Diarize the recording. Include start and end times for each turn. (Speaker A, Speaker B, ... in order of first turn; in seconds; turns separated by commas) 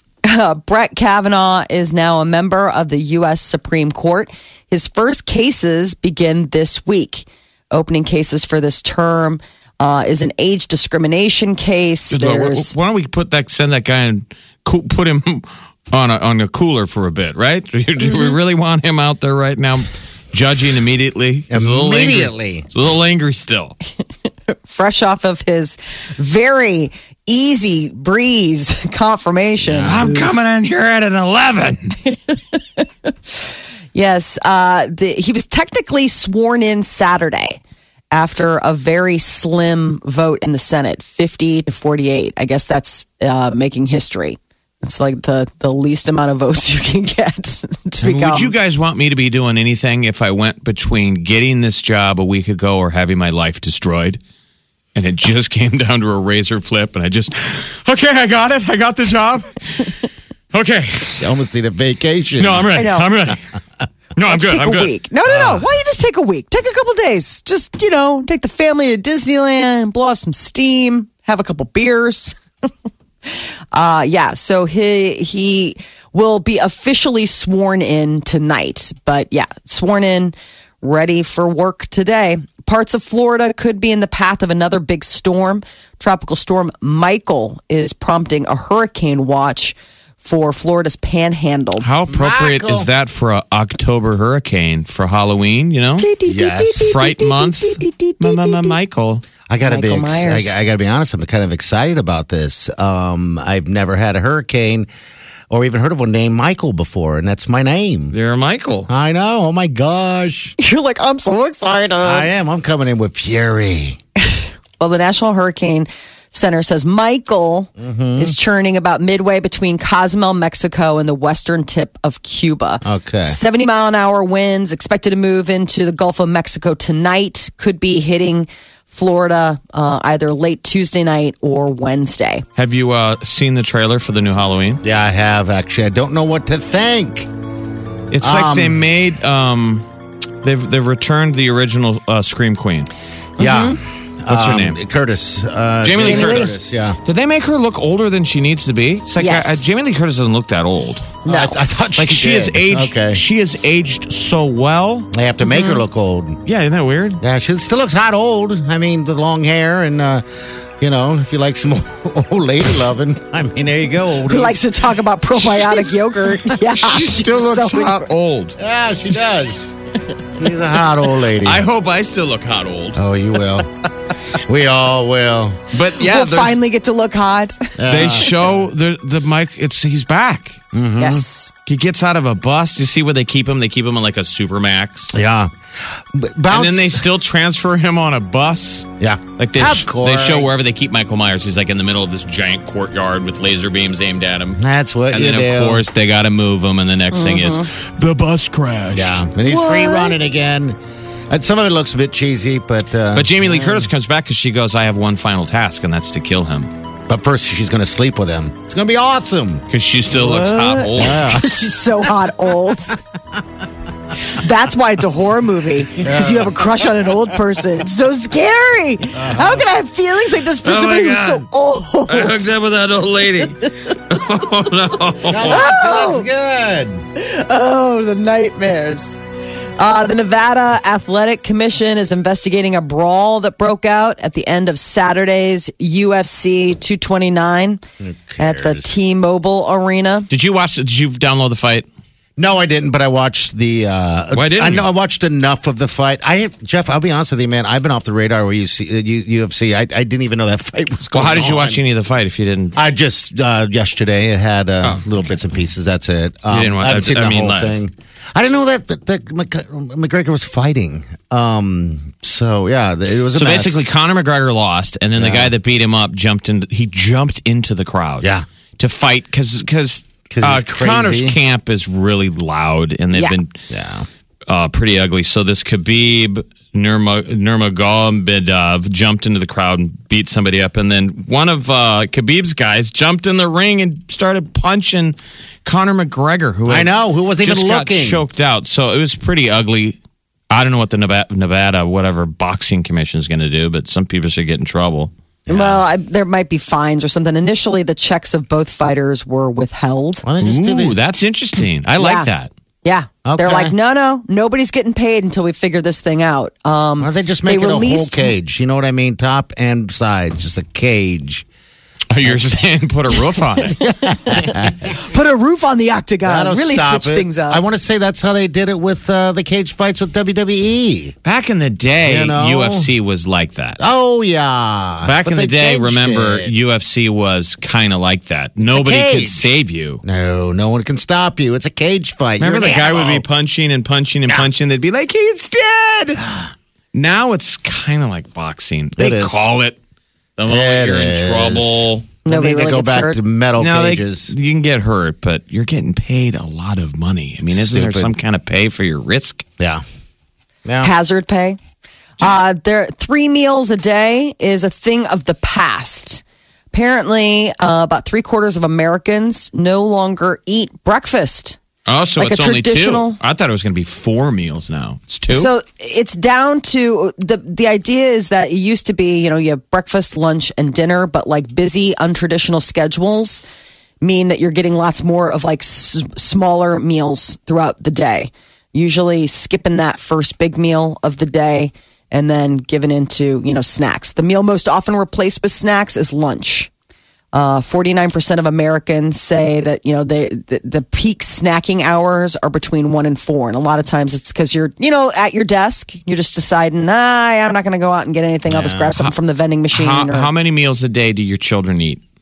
Speaker A: 0.2-12.7, Speaker B: 12.1-23.8, Speaker C: 21.5-22.7, Speaker A: 24.5-30.3, Speaker C: 29.7-30.0, Speaker B: 29.8-32.0, Speaker A: 32.1-32.8, Speaker A: 33.9-37.6, Speaker A: 38.1-48.5, Speaker B: 48.0-54.2, Speaker B: 55.0-60.0, Speaker B: 60.5-61.3, Speaker C: 61.2-62.8, Speaker B: 62.4-63.4, Speaker A: 62.7-63.1, Speaker B: 64.2-64.9, Speaker A: 64.2-72.4, Speaker C: 65.2-65.7, Speaker A: 73.3-91.9, Speaker B: 91.8-96.1, Speaker C: 92.1-92.9, Speaker A: 96.0-98.7, Speaker C: 96.3-96.8, Speaker B: 96.8-99.2, Speaker C: 99.5-104.9, Speaker A: 99.6-100.6, Speaker C: 105.5-108.2, Speaker B: 108.1-108.9, Speaker C: 108.9-110.6, Speaker A: 110.6-112.3, Speaker C: 112.0-114.0, Speaker A: 114.3-132.4, Speaker C: 117.8-118.4, Speaker C: 122.8-123.4, Speaker B: 132.6-134.8, Speaker C: 134.8-137.3, Speaker B: 138.1-139.8, Speaker C: 138.2-138.8, Speaker B: 140.4-142.9, Speaker C: 143.4-147.0, Speaker A: 143.4-143.8, Speaker B: 144.3-144.8, Speaker B: 145.8-151.2, Speaker A: 146.0-146.5, Speaker A: 149.2-149.7, Speaker A: 151.3-151.6, Speaker C: 151.3-153.2, Speaker B: 152.0-155.1, Speaker C: 155.1-156.4, Speaker A: 155.5-155.8, Speaker B: 156.5-157.2, Speaker C: 157.2-160.2, Speaker C: 160.8-164.6, Speaker A: 164.3-168.0, Speaker C: 165.4-166.0, Speaker B: 166.7-168.6, Speaker C: 168.6-169.7, Speaker C: 170.4-171.7, Speaker B: 171.4-173.0, Speaker C: 172.9-173.7, Speaker C: 174.4-175.6, Speaker B: 175.7-176.6, Speaker A: 175.9-177.8, Speaker C: 177.8-178.7, Speaker B: 177.9-180.6, Speaker C: 180.7-181.3, Speaker A: 181.0-181.5, Speaker B: 181.7-185.2, Speaker C: 185.1-185.5, Speaker C: 186.1-187.1, Speaker B: 186.5-199.2, Speaker C: 189.0-190.5, Speaker C: 194.6-195.8, Speaker A: 197.1-197.7, Speaker C: 198.9-200.8, Speaker A: 199.5-200.2, Speaker C: 201.3-203.8, Speaker B: 203.1-206.7, Speaker C: 207.1-209.7, Speaker B: 209.7-211.4, Speaker A: 210.1-213.0, Speaker C: 211.0-211.4, Speaker A: 214.2-222.6, Speaker C: 216.0-216.7, Speaker C: 219.1-219.7, Speaker B: 220.6-221.5, Speaker B: 222.1-225.6, Speaker C: 225.3-227.0, Speaker A: 225.4-226.3, Speaker A: 227.2-229.2, Speaker A: 229.8-237.8, Speaker C: 238.0-238.9, Speaker A: 238.4-240.3, Speaker B: 240.3-241.9, Speaker C: 242.4-251.8, Speaker B: 244.3-244.9, Speaker B: 251.1-252.8, Speaker C: 252.8-263.9, Speaker B: 256.5-257.8, Speaker B: 263.3-273.6, Speaker C: 265.2-265.5, Speaker C: 268.2-268.5, Speaker C: 270.3-271.4, Speaker C: 273.7-274.1, Speaker B: 274.5-290.0, Speaker C: 286.7-288.2, Speaker B: 290.5-295.1, Speaker C: 295.5-295.8, Speaker A: 295.5-300.2, Speaker C: 300.2-301.0, Speaker B: 300.4-302.5, Speaker A: 302.0-302.3, Speaker A: 302.9-308.3, Speaker C: 303.2-303.7, Speaker C: 307.0-311.4, Speaker B: 312.1-313.8, Speaker A: 313.8-317.6, Speaker C: 313.8-315.0, Speaker C: 316.2-321.1, Speaker B: 321.2-323.8, Speaker C: 322.0-322.9, Speaker C: 323.8-326.5, Speaker B: 325.0-330.0, Speaker C: 328.7-333.2, Speaker B: 332.4-336.2, Speaker C: 336.2-336.5, Speaker B: 336.9-339.8, Speaker C: 339.0-339.4, Speaker B: 340.4-342.1, Speaker C: 340.5-344.3, Speaker A: 342.3-343.2, Speaker B: 343.6-349.4, Speaker C: 347.5-348.1, Speaker C: 349.6-349.8, Speaker C: 350.7-350.9, Speaker A: 350.8-351.6, Speaker A: 352.2-361.6, Speaker B: 361.9-365.5, Speaker A: 362.2-363.2, Speaker A: 365.3-373.4, Speaker A: 374.0-386.7, Speaker A: 387.3-400.3, Speaker C: 398.5-399.1, Speaker B: 399.7-402.0